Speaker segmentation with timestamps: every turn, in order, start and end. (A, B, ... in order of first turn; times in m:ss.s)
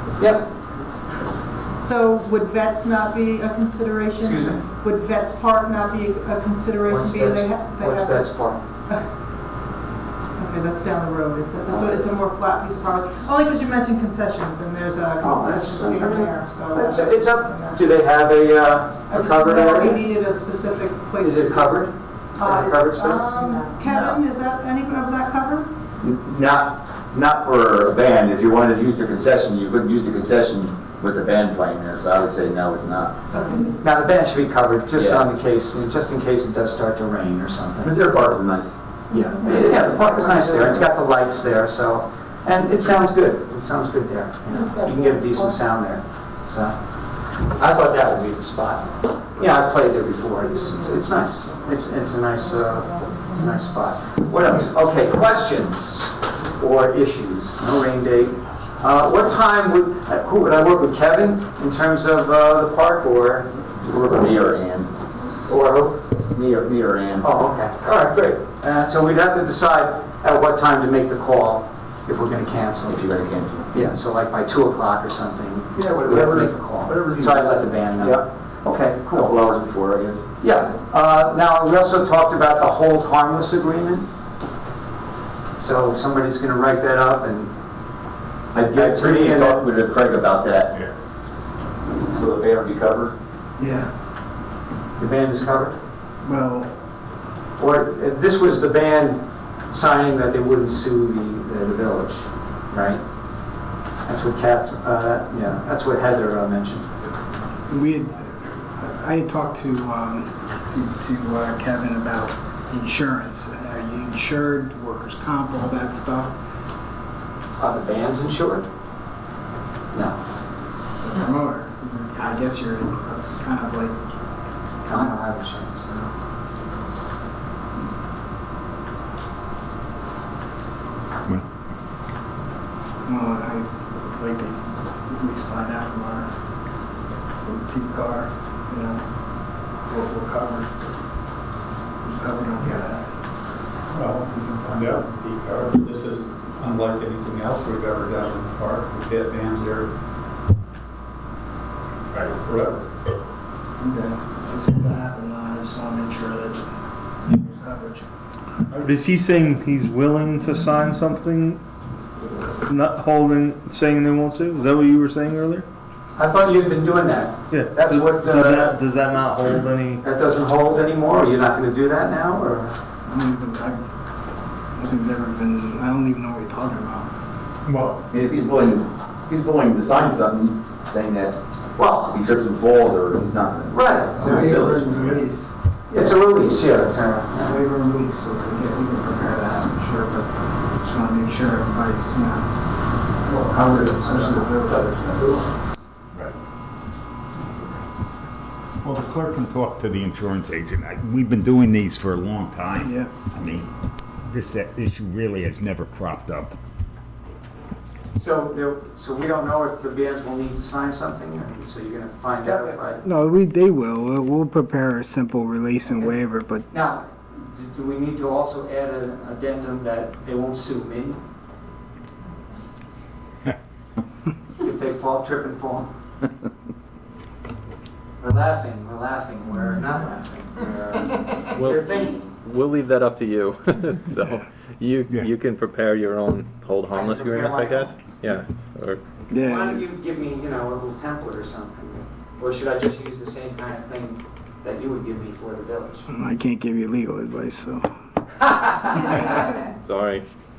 0:00.2-0:00.4 A
0:01.8-0:08.3 B
0:04.2-0:04.6 A
0:06.8-0:08.6 A
0:10.4-0:17.8 B
0:15.2-0:20.0 A
0:19.1-0:21.7 B
0:21.2-0:23.4 A
0:22.3-0:25.6 B
0:23.8-0:24.2 C
0:26.0-0:33.1 C
0:33.3-0:33.6 B
0:33.8-0:38.0 A
0:35.0-0:35.2 C
0:37.8-0:38.8 C
0:39.1-0:46.8 A
0:39.6-0:40.1 D
0:44.5-0:45.4 D
0:47.4-1:03.5 A
0:52.9-0:53.2 D
1:03.8-1:04.9 C
1:05.5-1:06.0 A
1:06.3-1:07.3 C
1:07.2-1:13.0 A
1:12.9-1:13.7 C
1:13.7-1:19.4 A
1:15.8-1:18.2 C
1:19.1-1:20.2 C
1:20.4-1:24.1 A
1:25.6-1:27.5 A
1:28.5-1:30.8 C
1:28.6-1:29.6 A
1:32.0-1:33.1 C
1:33.6-1:33.9 E
1:35.0-1:35.8 A
1:36.2-1:36.7 E
1:37.6-1:43.0 A
1:44.0-1:46.9 A
1:47.7-1:56.3 E
1:57.6-1:58.7 A
1:59.9-2:00.2 A
2:01.0-2:04.0 E
2:04.8-2:06.1 A
2:13.0-2:16.3 E
2:17.4-2:19.0 E
2:19.9-2:20.7 E
2:22.0-2:23.1 E
2:23.9-2:29.9 F
2:32.4-2:32.8 F
2:33.8-2:36.7 E
2:37.2-2:38.1 E
2:38.8-2:41.6 G
2:42.7-2:45.6 G
2:46.2-2:48.7 A
2:47.5-2:50.0 G
2:50.0-2:52.7 A
2:53.1-2:53.8 E
2:54.8-2:57.1 E
2:57.7-2:58.0 H
2:58.1-3:01.4 C
3:01.8-3:02.1 A
3:02.0-3:05.2 C
3:03.7-3:04.5 A
3:04.2-3:05.6 E
3:05.9-3:07.6 A
3:07.4-3:12.5 E
3:13.3-3:15.6 A
3:13.4-3:15.0 E
3:18.8-3:23.7 H
3:22.8-3:23.1 E
3:24.2-3:26.5 H
3:28.2-3:33.0 A
3:32.4-3:36.7 E
3:36.7-3:41.2 A
3:44.6-3:45.9 A
3:48.2-3:52.3 A
3:51.5-3:59.0 D
3:56.9-3:58.0 A
3:59.3-3:59.8 E
3:59.4-4:06.0 A
4:06.1-4:07.9 E
4:08.5-4:09.5 A
4:09.2-4:10.2 D